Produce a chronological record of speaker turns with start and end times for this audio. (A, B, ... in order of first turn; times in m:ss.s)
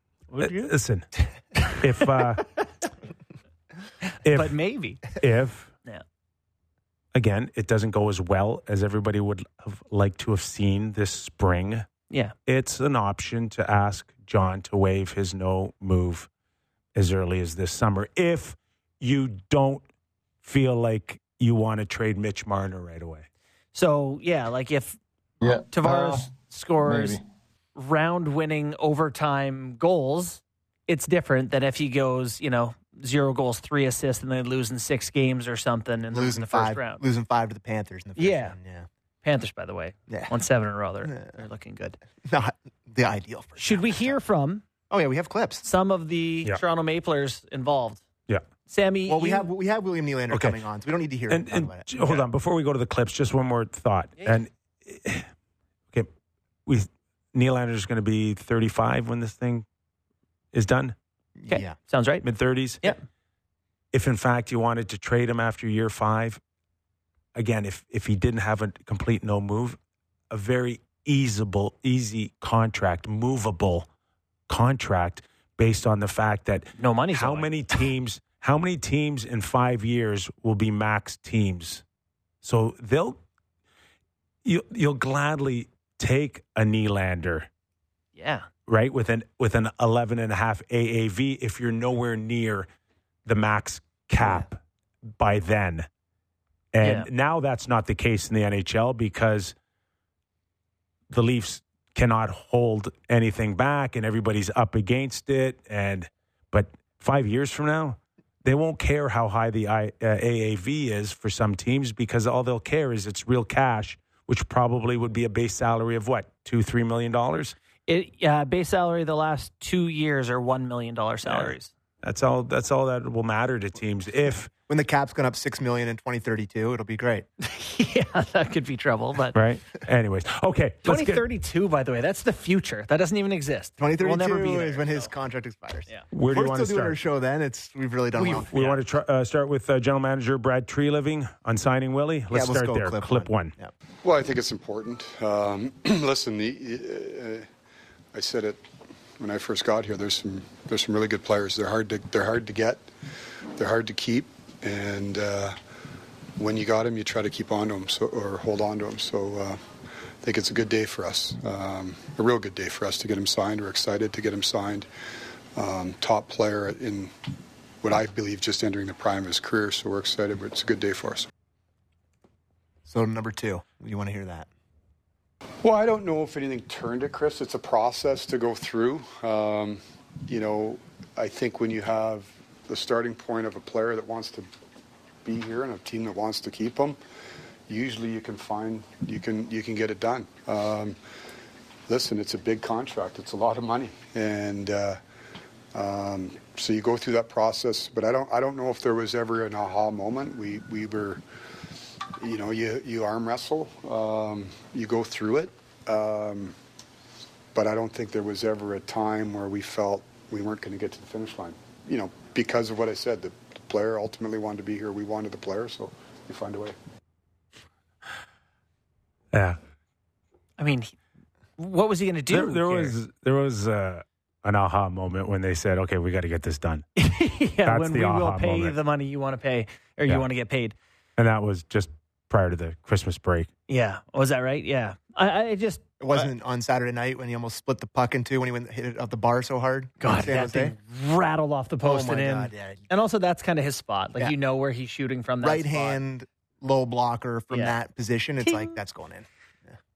0:00.3-0:00.7 A
0:00.4-0:01.1 B
0:01.7-0:02.5 B
0:04.1-0:05.0 A
0:04.2-0:05.7 B
0:07.1-0:11.9 B
0:12.5-0:16.3 B
0:17.0-0:19.8 B
0:20.4-0:23.3 B
0:23.8-0:25.0 A
0:25.6-0:27.2 A
0:27.8-0:37.0 A
0:36.1-0:38.9 C
0:38.2-0:38.6 A
0:39.2-0:42.0 A
0:42.2-0:44.2 C
0:43.6-0:44.6 A
0:44.9-0:45.6 C
0:45.6-0:48.0 A
0:48.7-0:49.5 A
0:49.1-0:51.9 C
0:50.3-0:50.6 B
0:51.3-0:55.3 B
0:56.7-0:59.7 B
1:00.5-1:01.0 B
1:01.4-1:01.8 C
1:01.5-1:02.2 A
1:02.2-1:02.9 B
1:03.9-1:06.4 B
1:07.4-1:09.8 B
1:10.3-1:13.9 B
1:14.5-1:21.8 B
1:16.8-1:17.8 A
1:22.4-1:23.2 B
1:24.4-1:27.5 B
1:28.2-1:28.5 A
1:28.7-1:32.7 B
1:33.3-1:34.6 B
1:35.2-1:35.9 B
1:36.7-1:39.6 B
1:36.8-1:37.1 A
1:41.1-1:57.6 B
1:57.9-2:01.7 A
2:01.3-2:04.5 B
2:04.7-2:07.3 C
2:07.4-2:09.4 A
2:09.3-2:11.2 B
2:10.8-2:15.1 A
2:13.8-2:18.5 C
2:16.1-2:17.0 B
2:18.2-2:23.5 B
2:18.2-2:18.8 A
2:22.3-2:23.7 C
2:24.0-2:27.5 D
2:28.1-2:28.6 D
2:29.2-2:32.8 D
2:33.6-2:35.6 D
2:36.4-2:39.6 D
2:40.2-2:44.9 D
2:45.6-2:47.1 D
2:47.8-2:51.3 D
2:52.9-2:54.5 C
2:55.6-3:04.5 D
3:05.2-3:07.0 D
3:07.7-3:11.0 D
3:11.9-3:15.0 D
3:15.7-3:21.2 D
3:22.2-3:26.6 D
3:27.5-3:36.8 D
3:39.3-3:39.6 B
3:40.6-3:40.9 A
3:41.6-3:42.9 A
3:42.3-3:46.9 B
3:47.0-3:50.8 A
3:47.6-3:48.8 B
3:51.2-3:53.5 B
3:53.7-3:56.3 A
3:56.0-4:00.8 C
4:00.0-4:06.0 A
4:01.8-4:02.9 C
4:05.4-4:09.8 C
4:07.5-4:07.8 A
4:08.4-4:08.8 A